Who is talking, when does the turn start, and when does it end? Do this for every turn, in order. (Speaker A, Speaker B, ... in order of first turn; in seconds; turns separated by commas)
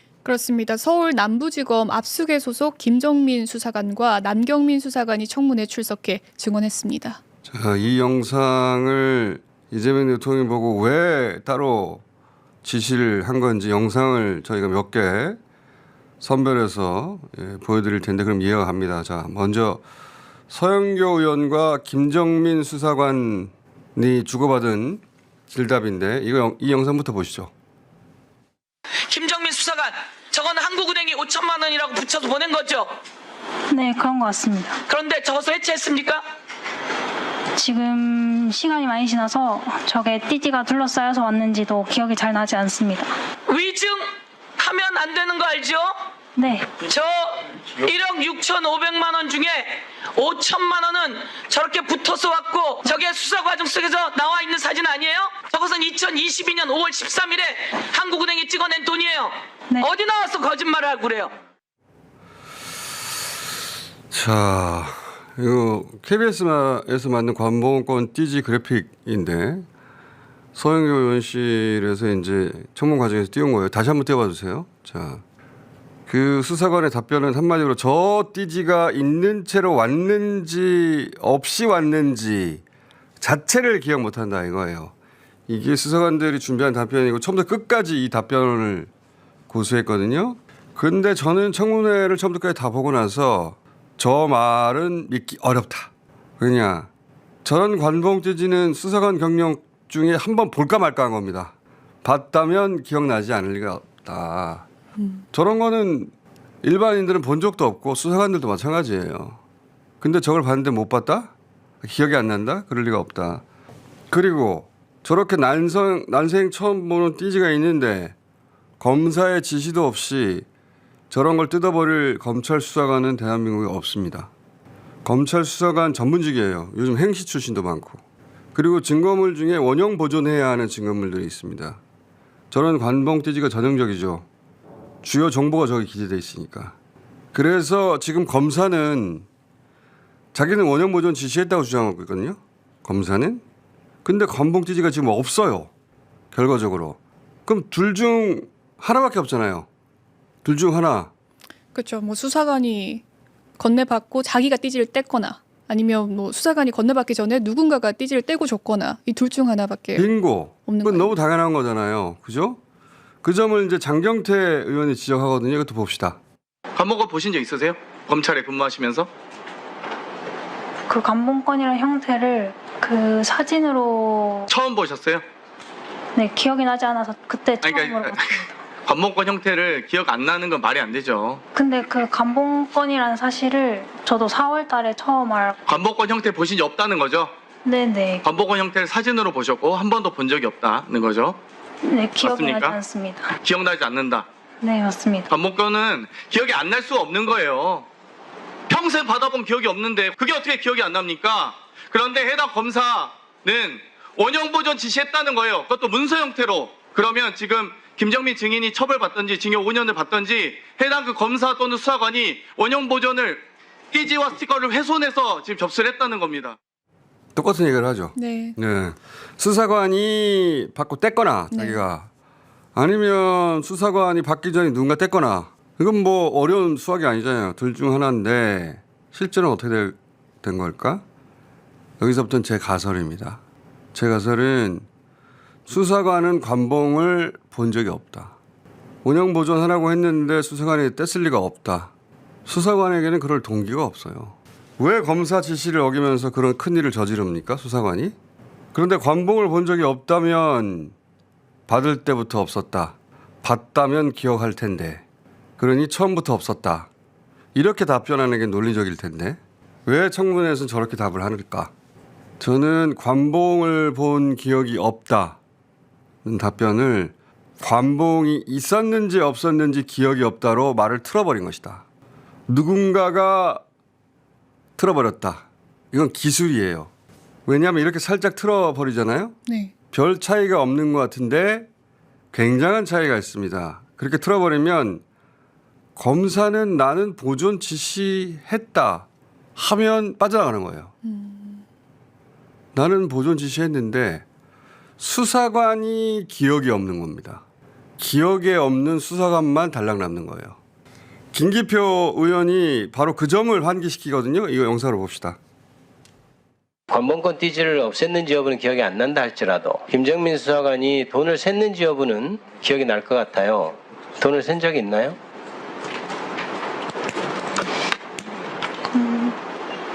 Speaker A: 0.2-7.2, Speaker B: 7.5-12.0, Speaker B: 12.6-15.4, Speaker B: 16.2-19.8, Speaker B: 20.5-27.5, Speaker C: 29.1-33.0, Speaker D: 33.7-34.8, Speaker C: 34.9-36.3, Speaker D: 37.6-43.1, Speaker C: 43.5-46.0, Speaker D: 46.4-46.8, Speaker C: 46.8-61.3, Speaker B: 64.1-69.7, Speaker B: 70.5-75.2, Speaker B: 76.1-82.6, Speaker B: 83.2-84.9, Speaker B: 85.5-88.9, Speaker B: 89.5-96.9, Speaker B: 97.5-101.5, Speaker B: 102.0-104.7, Speaker B: 105.3-106.1, Speaker B: 106.6-109.4, Speaker B: 110.0-113.4, Speaker B: 114.1-118.2, Speaker B: 118.8-120.5, Speaker B: 121.1-124.3, Speaker B: 125.0-128.0, Speaker B: 128.5-131.8, Speaker B: 132.5-134.3, Speaker B: 135.0-136.8, Speaker B: 137.3-139.3, Speaker B: 140.3-143.4, Speaker B: 144.0-145.7, Speaker B: 146.3-149.7, Speaker B: 150.4-151.1, Speaker A: 151.8-153.0, Speaker A: 153.6-160.1, Speaker B: 159.9-162.6, Speaker A: 160.7-161.2, Speaker B: 163.2-166.2, Speaker E: 166.8-169.1, Speaker D: 170.9-174.5, Speaker E: 174.5-175.2, Speaker D: 176.2-178.6, Speaker E: 177.6-178.3, Speaker E: 178.8-181.4, Speaker D: 181.6-185.6, Speaker E: 185.7-187.3, Speaker D: 187.7-188.2, Speaker E: 188.2-191.4, Speaker D: 191.8-193.3, Speaker E: 192.2-192.8, Speaker E: 193.4-194.3, Speaker D: 194.6-195.3, Speaker E: 195.3-197.9, Speaker E: 198.7-216.6, Speaker B: 217.3-222.1, Speaker A: 218.2-218.6, Speaker A: 221.5-221.8, Speaker B: 222.8-231.0, Speaker B: 232.0-233.4, Speaker B: 233.9-234.8, Speaker B: 235.7-238.3, Speaker B: 239.0-241.9, Speaker B: 242.5-248.2, Speaker B: 248.7-250.9, Speaker B: 251.7-255.0, Speaker B: 255.6-256.9, Speaker B: 257.6-261.7, Speaker B: 262.4-265.4, Speaker B: 266.2-271.8, Speaker B: 272.5-273.6, Speaker B: 274.8-276.9, Speaker B: 277.5-279.4, Speaker A: 279.5-279.7, Speaker B: 279.9-281.7, Speaker B: 282.3-285.0, Speaker B: 286.0-290.9, Speaker A: 291.1-291.6, Speaker B: 292.8-294.2, Speaker B: 295.0-297.4, Speaker B: 298.0-300.6, Speaker B: 301.3-305.4, Speaker F: 306.9-315.2, Speaker D: 318.9-319.4